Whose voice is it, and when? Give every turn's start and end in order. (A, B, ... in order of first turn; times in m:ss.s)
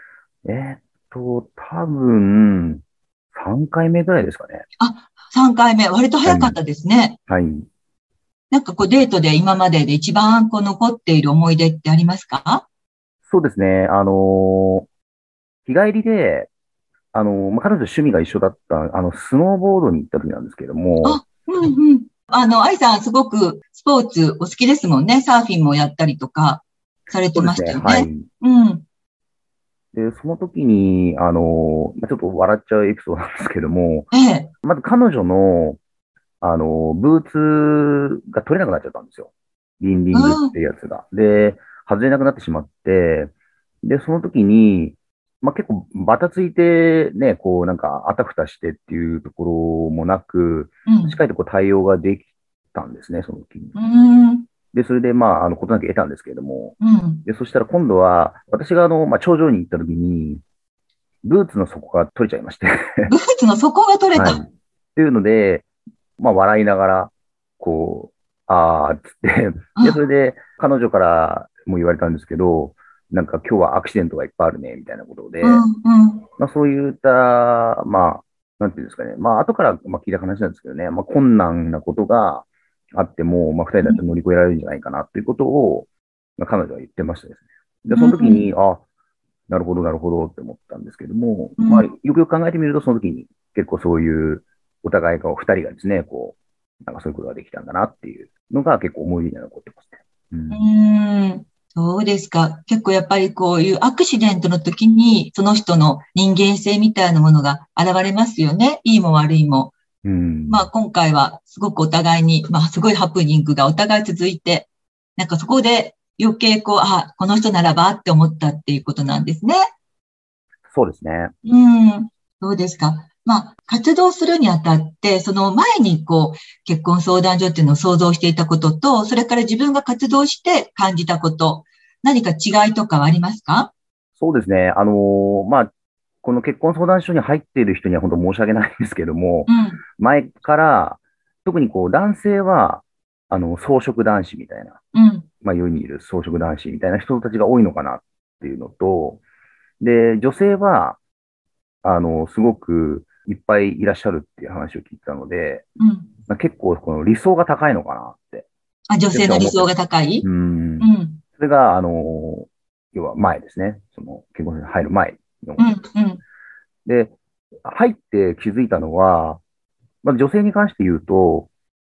0:00.4-0:02.8 A
0:03.3-0:04.6 A
0:04.8-0:07.2 B
0:06.2-0:06.6 A
0:07.3-0:07.7 A
0:08.5-0:12.6 B
0:13.2-0:14.9 A
0:15.6-0:16.5 A
0:17.1-0:21.2 A
0:21.0-0:28.8 B
0:27.3-0:28.2 A
0:29.9-0:34.1 A
0:34.1-0:34.5 B
0:34.6-0:35.8 A
0:36.4-0:43.3 A
0:40.1-0:40.5 B
0:43.8-0:53.8 A
0:50.8-0:51.2 B
0:53.7-0:54.4 B
0:54.7-1:00.4 A
0:56.8-0:57.2 B
1:01.2-1:03.1 A
1:03.1-1:04.4 B
1:04.2-1:05.7 A
1:06.2-1:15.6 A
1:15.4-1:16.2 B
1:16.4-1:28.8 A
1:27.9-1:28.4 B
1:29.5-1:40.7 A
1:31.6-1:31.9 B
1:40.5-1:49.7 B
1:50.0-1:50.7 A
1:50.5-1:59.6 B
2:00.7-2:01.3 A
2:01.4-2:13.7 B
2:14.2-2:15.7 A
2:16.2-2:24.8 A
2:19.5-2:19.8 B
2:24.9-2:25.2 B
2:25.4-2:29.2 A
2:29.8-2:31.0 A
2:31.8-2:35.6 A
2:35.8-2:36.1 B
2:36.3-2:38.5 A
2:38.9-2:40.3 B
2:39.1-2:39.7 A
2:40.2-2:45.7 A
2:40.8-2:41.2 B
2:45.6-2:46.2 B
2:46.8-2:49.4 A
2:50.0-2:51.5 A